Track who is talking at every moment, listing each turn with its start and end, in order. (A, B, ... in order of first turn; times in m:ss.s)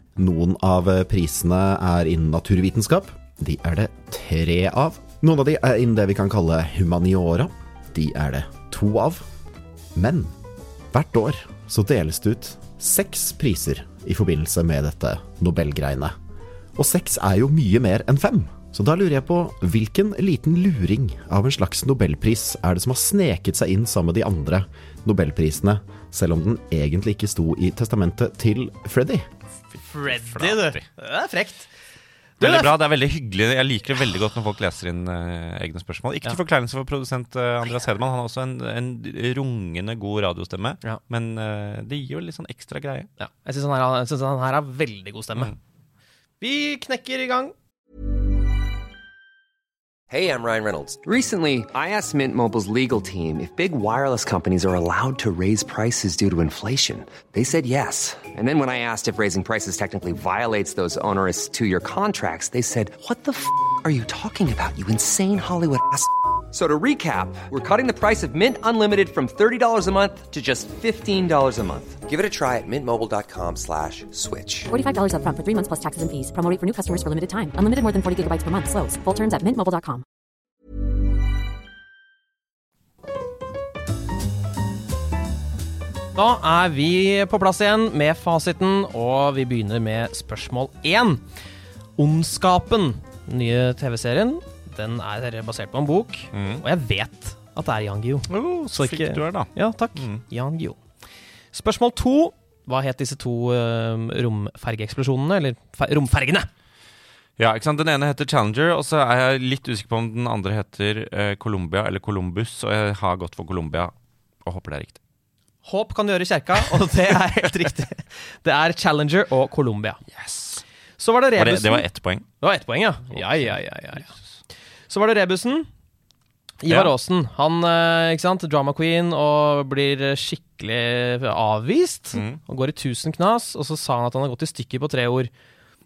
0:00.2-0:09.2 A
0:09.9-0:10.3 A
0:10.9-0:16.1 A
0:16.8-0:29.3 A
0:29.7-0:30.8 B
0:29.8-0:31.7 C
0:32.4-0:32.7 C
0:32.4-0:43.1 B
0:43.2-0:45.5 C
0:46.4-0:47.5 C
0:50.1-1:14.7 D
1:14.7-1:20.0 E
1:26.1-1:31.3 C
1:32.0-1:40.8 C
1:36.3-1:36.6 B
1:38.3-1:40.2 B
1:41.5-1:46.5 C
1:47.4-1:53.9 B
1:54.4-1:55.0 B
1:55.6-2:00.0 C
2:00.1-2:00.6 B
2:01.0-2:01.8 C
2:01.4-2:02.3 B
2:02.4-2:04.1 C
2:03.1-2:04.1 B
2:04.9-2:05.7 C
2:06.6-2:15.3 C
2:12.1-2:12.4 B